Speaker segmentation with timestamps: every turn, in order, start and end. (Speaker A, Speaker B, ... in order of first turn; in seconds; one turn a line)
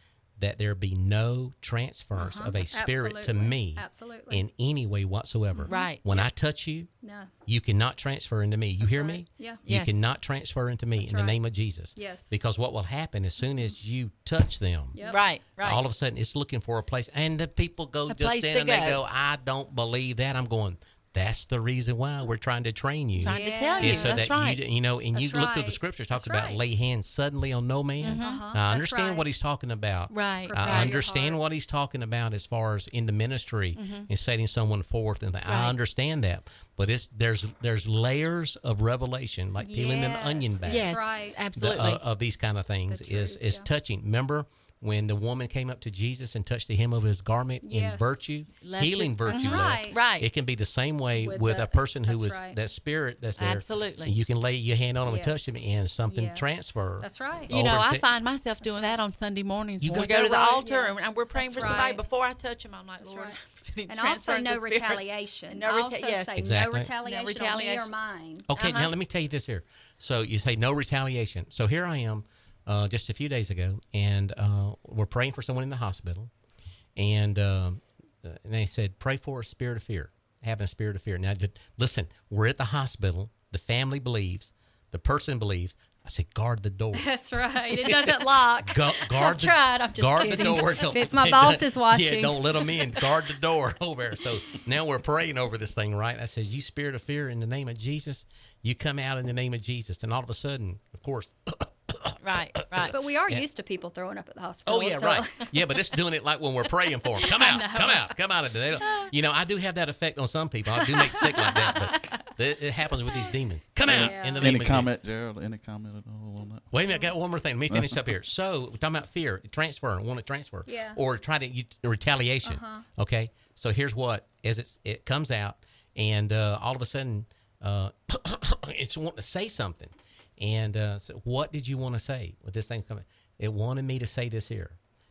Speaker A: 0.4-58.1
Speaker B: 2.1-4.4
Speaker B: 5.5-6.3
Speaker C: 5.7-6.0
Speaker B: 7.0-7.3
Speaker B: 8.8-9.6
Speaker C: 9.6-10.0
Speaker B: 11.0-11.4
Speaker B: 11.9-12.4
Speaker B: 14.9-15.2
Speaker C: 15.1-15.8
Speaker C: 18.1-19.0
Speaker C: 23.2-24.6
Speaker B: 23.2-24.3
Speaker B: 25.1-26.6
Speaker C: 28.0-28.5
Speaker B: 28.1-29.3
Speaker C: 30.1-30.9
Speaker B: 30.4-31.4
Speaker C: 33.8-34.1
Speaker C: 35.5-35.8
Speaker B: 39.6-41.4
Speaker C: 40.6-42.0
Speaker B: 42.9-43.7
Speaker B: 47.6-48.2
Speaker C: 48.6-50.3
Speaker B: 49.3-50.0
Speaker B: 51.1-52.5
Speaker C: 53.4-54.1
Speaker B: 55.0-55.5
Speaker B: 56.1-56.5
Speaker B: 57.0-57.5
Speaker C: 57.5-66.4
Speaker B: 58.6-59.0
Speaker A: 59.8-60.6
Speaker B: 60.6-62.0
Speaker B: 63.0-68.5
Speaker A: 66.4-66.9
Speaker C: 67.0-67.9
Speaker A: 68.5-76.3
Speaker C: 68.5-68.9
Speaker A: 77.0-87.2
Speaker B: 86.9-93.0
Speaker A: 87.7-103.4
Speaker C: 102.2-102.9
Speaker B: 102.9-105.5
Speaker A: 104.7-114.9
Speaker B: 107.2-108.1
Speaker B: 110.8-112.2
Speaker D: 113.8-116.7
Speaker B: 113.9-114.5
Speaker A: 116.7-134.8
Speaker D: 117.7-118.0
Speaker B: 120.7-121.0
Speaker B: 122.4-122.8